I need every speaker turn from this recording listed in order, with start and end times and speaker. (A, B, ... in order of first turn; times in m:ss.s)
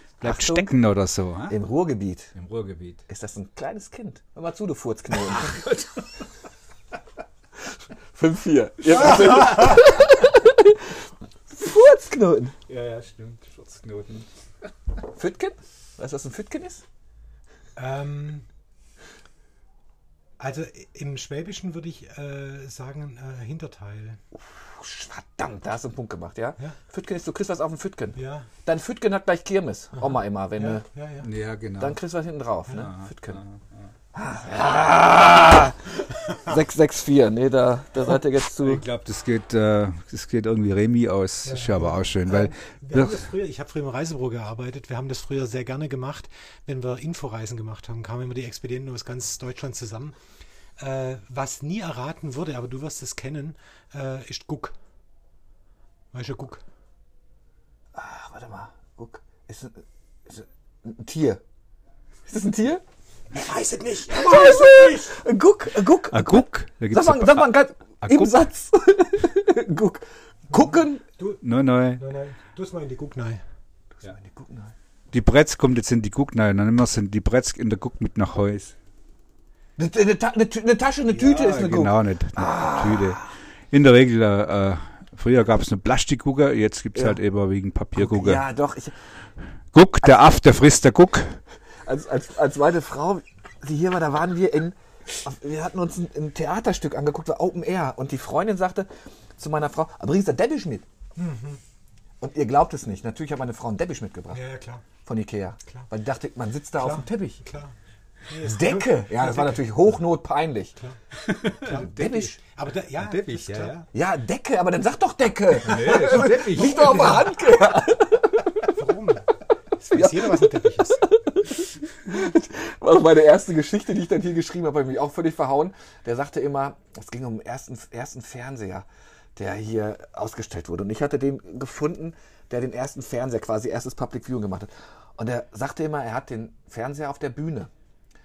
0:00.2-0:01.6 A
0:00.2-0:00.7 B
0:01.5-0:02.3 B
0:02.4-0:03.0 A
0:03.1-0:05.6 B
0:05.3-0:06.2 A
0:07.6-0:12.6 B
0:12.7-0:14.3 A
0:15.1-0:16.8 B
0:17.8-0:18.4 C
0:20.4-0:24.2 C
0:24.4-0:30.8 B
0:28.2-0:28.5 C
0:30.6-0:31.3 C
0:31.2-0:32.0 A
0:31.8-0:33.4 B
0:32.7-0:33.9 A
0:34.1-0:38.8 B
0:38.6-0:43.2 A
0:41.4-0:50.2 C
0:50.8-0:54.7 C
0:56.1-0:56.6 C
0:57.9-1:01.4 B
1:02.3-1:02.8 B
1:03.3-1:05.1 C
1:04.1-1:11.0 B
1:06.1-1:07.5 A
1:08.0-1:08.3 A
1:11.4-1:12.0 A
1:12.0-1:13.4 C
1:14.0-1:14.7 B
1:15.1-1:18.7 A
1:19.8-1:23.3 B
1:21.1-1:28.4 A
1:26.9-1:27.2 B
1:28.0-1:29.0 B
1:29.7-1:31.4 A
1:31.8-1:40.8 B
1:41.2-1:41.6 C
1:42.2-1:44.4 B
1:44.3-1:44.8 C
1:45.0-1:47.4 B
1:46.8-1:47.7 C
1:48.3-1:49.6 C
1:48.4-1:50.7 B
1:51.2-1:51.8 A
1:51.6-1:53.8 C
1:51.6-1:52.4 B
1:53.0-1:53.8 A
1:53.9-1:58.5 B
1:55.6-1:57.3 A
1:58.7-2:01.0 C
1:59.9-2:17.7 B